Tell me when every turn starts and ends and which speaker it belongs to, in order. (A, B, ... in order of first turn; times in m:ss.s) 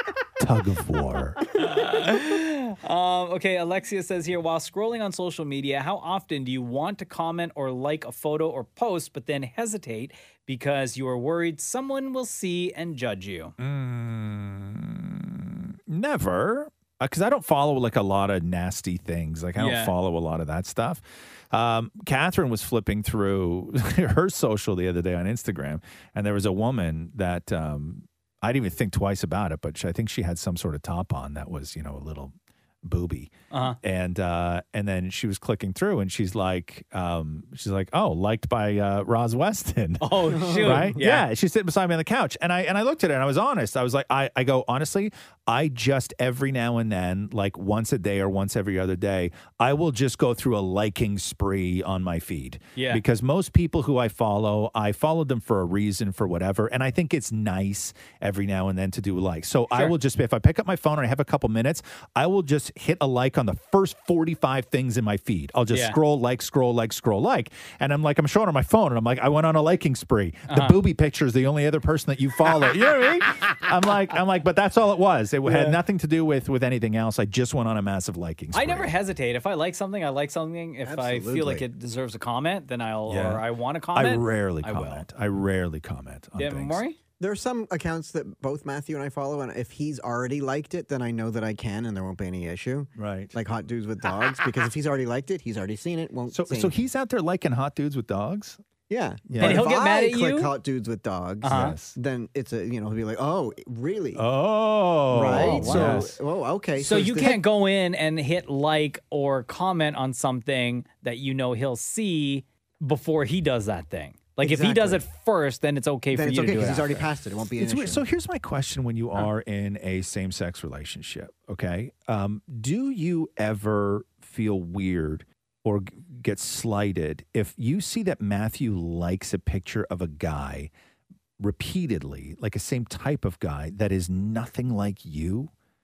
0:00.4-0:01.4 A
0:01.5-0:13.5 B
0:13.6-1:18.9 A
0:19.6-0:19.9 B
0:33.5-0:33.8 B
0:40.0-0:41.3 B
0:40.3-0:41.0 C
0:52.8-0:53.0 B
1:05.7-1:06.0 B
1:10.5-1:10.8 B
1:15.4-1:15.8 B
1:18.5-1:25.1 B
1:20.8-1:21.6 C
1:23.1-1:26.8 A
1:26.3-1:27.0 B
1:27.2-1:36.7 C
1:33.0-1:33.3 A
1:36.3-1:38.6 A
1:38.9-1:44.2 C
1:39.3-1:39.6 A
1:39.4-1:40.5 B
1:41.4-1:41.8 B
1:41.4-1:42.0 A
1:44.1-1:46.2 A
1:45.1-1:47.4 C
1:45.3-1:46.1 B
1:46.8-1:57.1 B
1:54.4-1:55.0 C
1:56.1-1:58.0 C
1:57.6-2:10.7 A
2:11.4-2:15.5 A